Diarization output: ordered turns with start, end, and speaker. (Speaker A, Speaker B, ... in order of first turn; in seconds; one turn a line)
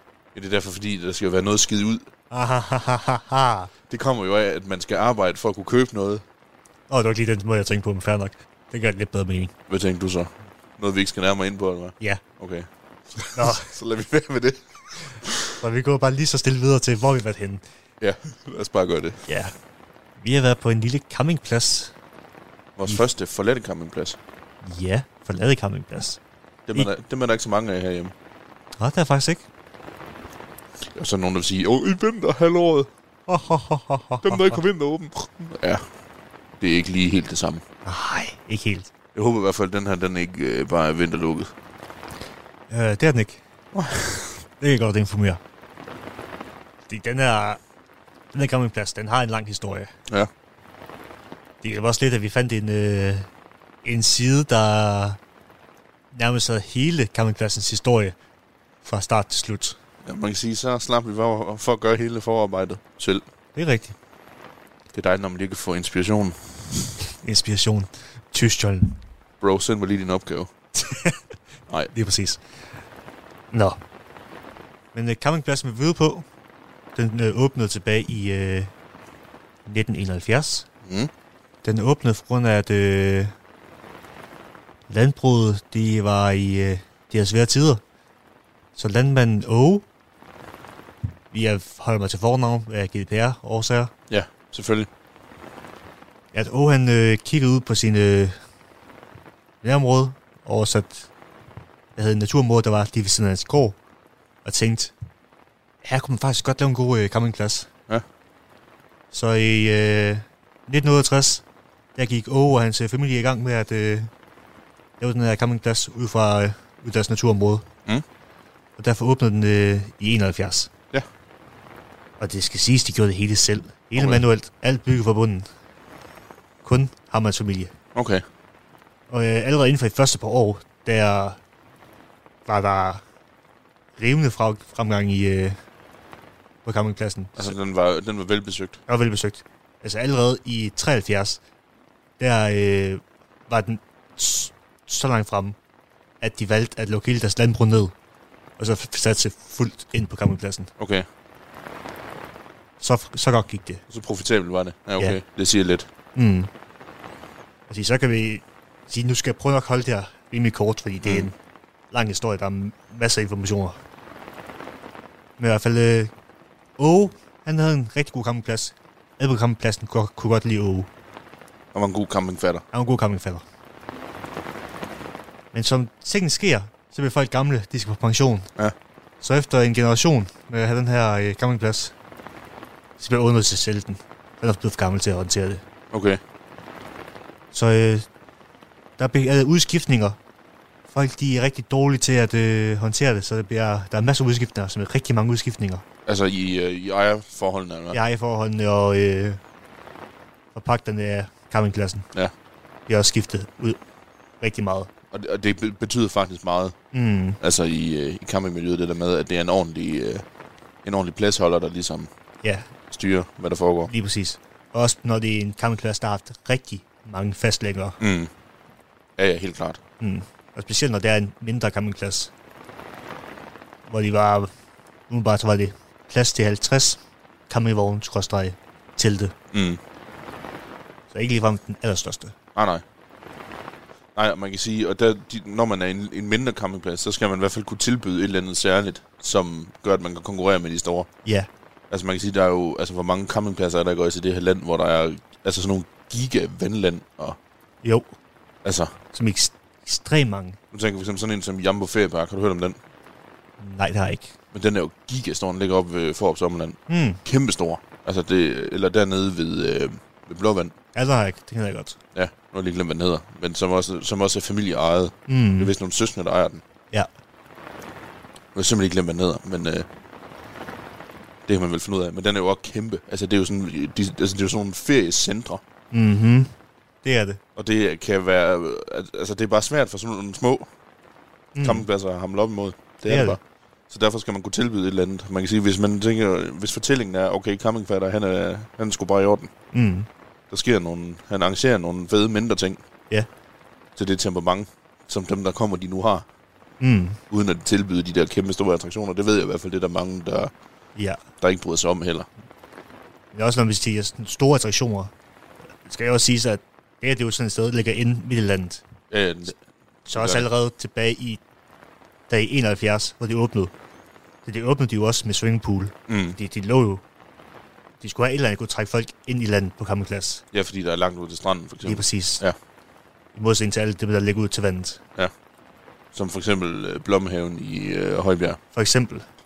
Speaker A: 0.3-2.1
Speaker B: 2.3-3.7
Speaker A: 3.9-6.2
Speaker B: 6.9-9.5
Speaker A: 9.7-15.5
Speaker B: 13.3-13.7
Speaker B: 15.6-17.6
Speaker A: 18.0-19.2
Speaker B: 19.3-19.5
Speaker B: 20.2-21.9
Speaker A: 22.8-24.2
Speaker B: 24.6-26.2
Speaker A: 26.7-28.1
Speaker B: 28.8-29.4
Speaker A: 30.9-32.9
Speaker B: 33.3-34.6
Speaker A: 34.2-35.8
Speaker A: 36.6-37.6
Speaker B: 37.9-38.9
Speaker A: 39.1-41.5
Speaker B: 42.7-43.4
Speaker A: 43.7-44.4
Speaker B: 44.6-45.4
Speaker B: 46.9-47.6
Speaker B: 48.3-49.9
Speaker B: 51.6-53.3
Speaker B: 53.8-55.2
Speaker B: 56.1-58.1
Speaker B: 58.8-59.8
Speaker A: 60.0-63.2
Speaker B: 63.5-63.9
Speaker A: 64.9-66.9
Speaker B: 67.2-69.0
Speaker A: 69.4-70.5
Speaker B: 70.8-71.2
Speaker B: 71.9-72.4
Speaker B: 73.5-73.8
Speaker B: 74.9-76.2
Speaker B: 76.9-78.7
Speaker B: 79.7-80.7
Speaker B: 81.6-83.3
Speaker B: 84.9-87.8
Speaker B: 88.8-89.8
Speaker B: 91.3-93.9
Speaker A: 94.1-94.9
Speaker B: 96.3-98.4
Speaker B: 99.6-101.1
Speaker B: 102.0-103.8
Speaker B: 104.4-104.9
Speaker B: 105.8-107.7
Speaker B: 109.1-111.4
Speaker B: 111.9-114.1
Speaker B: 115.0-117.7
Speaker B: 118.8-120.7
Speaker B: 122.2-125.5
Speaker A: 124.0-124.2
Speaker B: 126.6-127.7
Speaker A: 127.9-128.2
Speaker B: 129.1-131.4
Speaker B: 132.4-133.0
Speaker B: 134.0-135.6
Speaker B: 136.6-137.5
Speaker A: 137.4-138.8
Speaker B: 138.9-141.4
Speaker B: 142.2-145.6
Speaker B: 146.2-147.9
Speaker B: 148.6-150.7
Speaker A: 150.8-151.1
Speaker B: 152.8-153.8
Speaker A: 153.9-155.9
Speaker B: 156.2-156.5
Speaker B: 157.7-161.3
Speaker A: 161.0-161.3
Speaker B: 161.9-163.8
Speaker B: 165.4-166.1
Speaker B: 166.8-170.9
Speaker A: 171.7-172.6
Speaker B: 172.7-173.4
Speaker B: 175.5-178.5
Speaker B: 179.2-181.9
Speaker B: 183.0-185.6
Speaker A: 185.9-186.2
Speaker B: 187.5-188.1
Speaker B: 189.0-190.2
Speaker B: 190.9-195.8
Speaker A: 196.1-198.0
Speaker B: 197.9-199.4
Speaker B: 200.5-202.1
Speaker B: 202.9-203.8
Speaker B: 204.4-204.9
Speaker A: 205.1-206.8
Speaker B: 206.9-207.4
Speaker A: 207.4-210.2
Speaker A: 210.8-212.1
Speaker B: 212.4-212.7
Speaker A: 212.9-213.9
Speaker B: 213.9-218.0
Speaker A: 218.0-218.3
Speaker A: 219.2-219.8
Speaker B: 220.0-222.3
Speaker B: 223.9-224.5
Speaker B: 225.1-229.3
Speaker A: 229.5-229.8
Speaker B: 231.1-232.3
Speaker A: 232.6-232.8
Speaker A: 234.2-241.1
Speaker A: 241.9-247.4
Speaker B: 247.8-248.1
Speaker A: 248.6-248.9
Speaker B: 249.1-250.6
Speaker A: 250.7-252.8
Speaker B: 253.6-254.3
Speaker A: 254.5-260.7
Speaker B: 256.9-257.2
Speaker B: 260.9-262.0
Speaker A: 262.1-266.6
Speaker B: 265.3-265.7
Speaker A: 268.5-269.9
Speaker A: 271.5-275.6
Speaker B: 275.9-276.5
Speaker B: 277.0-277.4
Speaker A: 277.6-280.7
Speaker B: 281.6-281.9
Speaker A: 281.6-283.4
Speaker B: 283.1-283.4
Speaker A: 283.9-289.5
Speaker B: 289.7-290.1
Speaker A: 290.5-292.8
Speaker A: 293.9-296.2
Speaker B: 296.8-297.2
Speaker A: 297.3-300.5
Speaker A: 301.4-302.3
Speaker B: 303.3-305.1
Speaker B: 305.8-308.8
Speaker A: 309.1-309.6
Speaker B: 310.1-311.4
Speaker A: 310.1-310.5
Speaker B: 312.3-313.7
Speaker B: 314.4-317.0
Speaker A: 316.1-316.4
Speaker B: 318.0-320.4
Speaker A: 320.5-322.5
Speaker B: 321.8-322.4
Speaker B: 323.3-325.0
Speaker A: 326.1-328.6
Speaker B: 328.7-329.2